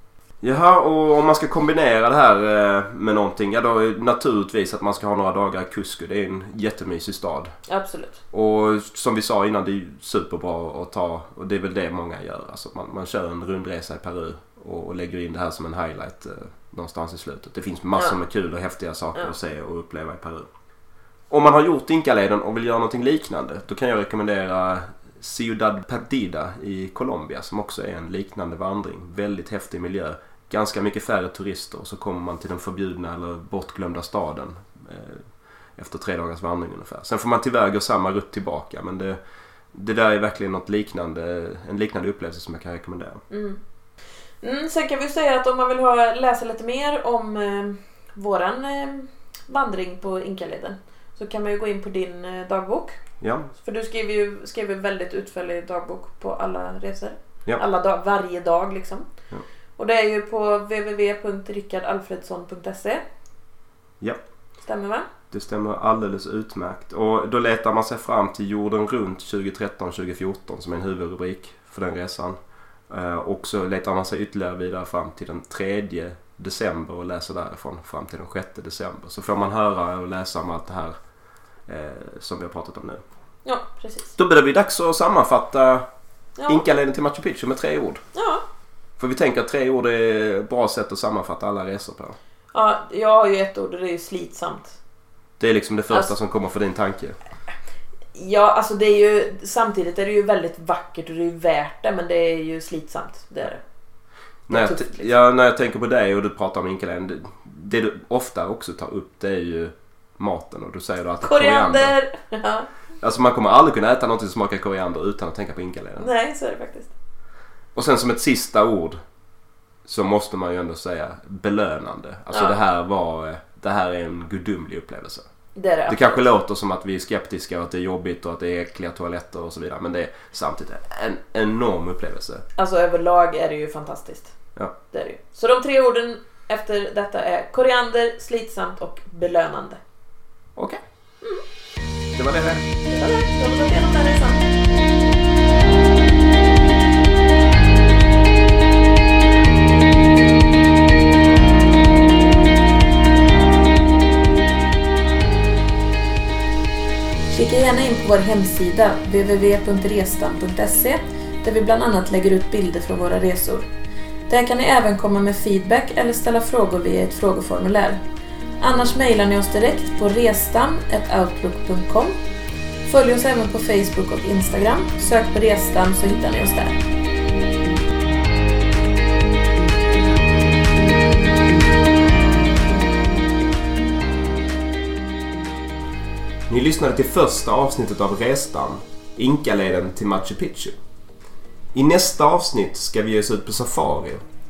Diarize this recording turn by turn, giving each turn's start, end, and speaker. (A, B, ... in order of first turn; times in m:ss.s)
0:00.4-0:07.5 A
0:07.7-0:08.2 B
0:08.3-0:20.5 A
0:21.3-0:39.2 A
0:39.7-0:43.2 A
0:43.3-0:43.6 B
0:44.4-0:53.0 B
0:53.2-0:53.5 A
0:53.6-0:59.1 B
0:59.8-1:03.0 B
1:04.6-1:05.1 B
1:05.3-1:12.4 A
1:12.9-1:20.9 A
1:21.7-1:23.0 A
1:23.4-1:24.1 B
1:24.2-1:25.9 A
1:26.4-1:26.6 B
1:26.5-1:28.0 A
1:28.1-1:28.4 B
1:29.0-1:32.2 A
1:32.5-1:34.8 B
1:35.4-1:37.2 A
1:38.1-1:43.6 B
1:44.5-1:51.9 A
1:44.5-1:45.1 B
1:51.2-1:52.7 B
1:53.0-1:56.1 A
1:56.0-1:56.9 B
1:57.7-1:59.0 A
1:59.9-2:05.2 A
2:05.6-2:06.3 B
2:05.9-2:12.4 A
2:12.6-2:14.4 B
2:14.9-2:19.8 B
2:20.6-2:20.8 A
2:22.1-2:22.6 A
2:22.9-2:24.5 B
2:37.3-2:43.6 B
2:44.3-2:48.0 B
2:48.6-2:52.2 B
2:52.8-2:56.8 B
3:06.5-3:10.7 A
3:11.7-3:14.2 A